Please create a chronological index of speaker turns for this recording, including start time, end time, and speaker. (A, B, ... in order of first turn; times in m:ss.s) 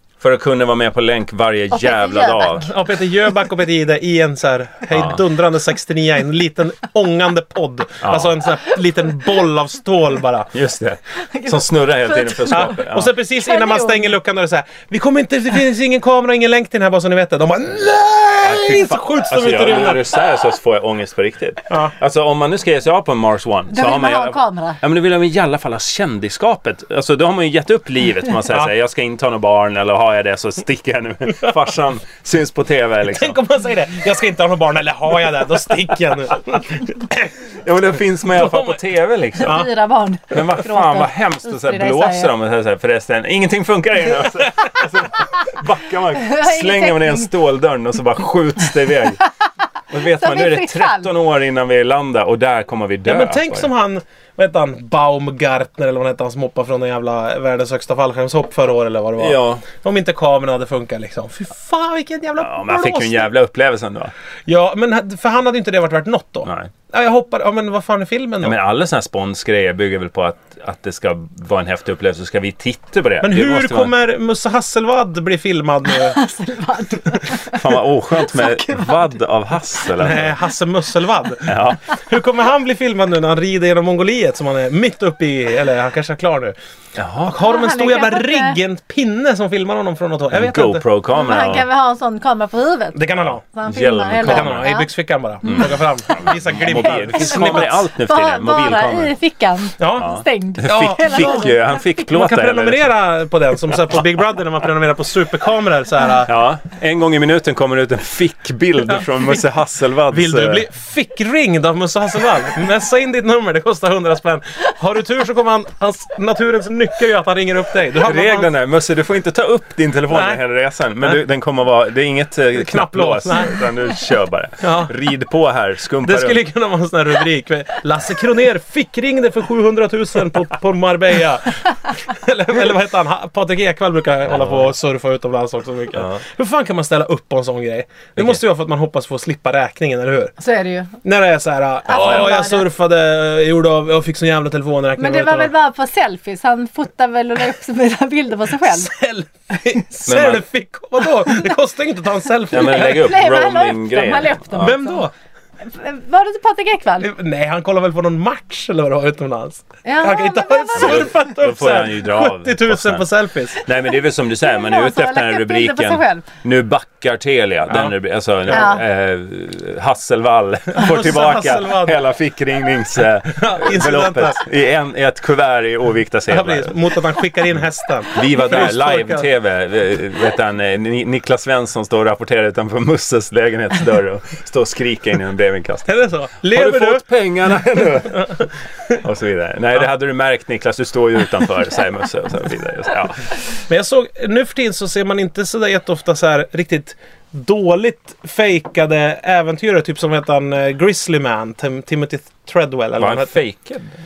0:00.2-0:02.7 A
0:01.7-0:02.7 B
0:02.6-0:10.5 C
0:04.9-0:05.2 A
0:08.0-0:08.3 A
0:10.5-0:13.1 A
0:11.2-0:12.8 B
0:12.5-0:20.1 C
0:13.4-0:14.1 B
0:18.4-0:33.4 A
0:23.7-0:24.8 B
0:33.1-0:37.3 C
0:37.6-0:39.6 A
0:38.4-0:38.8 C
0:39.4-0:42.3 B
0:39.4-0:39.7 C
0:40.3-0:49.2 A
0:46.1-0:47.3 B
0:49.9-0:53.7 A
0:50.0-0:51.1 B
0:53.0-1:03.3 C
0:59.2-0:59.6 A
1:02.4-1:04.1 A
1:04.5-1:08.6 C
1:06.4-1:06.7 A
1:08.4-1:13.9 A
1:13.2-1:16.2 C
1:15.9-1:19.0 B
1:17.5-1:20.4 A
1:20.0-1:26.6 C
1:21.4-1:21.8 A
1:27.0-1:27.4 A
1:27.2-1:30.8 C
1:27.3-1:28.6 B
1:30.3-1:31.6 A
1:31.1-1:34.9 B
1:32.9-1:33.4 C
1:33.3-1:34.7 A
1:34.2-1:37.8 C
1:35.4-1:39.1 A
1:37.1-1:41.6 B
1:39.8-1:40.1 C
1:40.0-1:42.9 A
1:40.6-1:41.5 C
1:42.1-1:46.3 C
1:46.2-1:50.6 A
1:50.1-1:58.5 C
1:58.0-2:06.4 A
2:00.1-2:00.4 C
2:02.5-2:03.6 C
2:04.6-2:04.9 C
2:06.0-2:20.3 C
2:14.3-2:14.7 A
2:15.9-2:16.2 A
2:18.2-2:18.4 A
2:20.4-2:21.0 B
2:21.0-2:25.5 C
2:21.8-2:22.6 B
2:22.0-2:22.2 A
2:25.0-2:28.9 B
2:28.6-2:33.2 C
2:30.0-2:30.4 A
2:32.5-2:34.8 A
2:32.5-2:35.0 B
2:34.6-2:35.1 C
2:35.6-2:37.1 B
2:37.0-2:43.6 C
2:39.8-2:41.1 B
2:40.7-2:43.0 A
2:43.6-2:56.8 A
2:44.4-2:46.3 B
2:48.5-2:48.7 C
2:48.5-2:48.8 B
2:50.7-2:52.0 C
2:53.4-2:54.4 C
2:56.3-2:59.3 C
2:58.1-3:06.0 A
3:05.9-3:07.0 C
3:06.5-3:08.5 A
3:08.1-3:09.0 C
3:09.0-3:13.3 A
3:13.7-3:23.3 C
3:23.0-3:23.9 A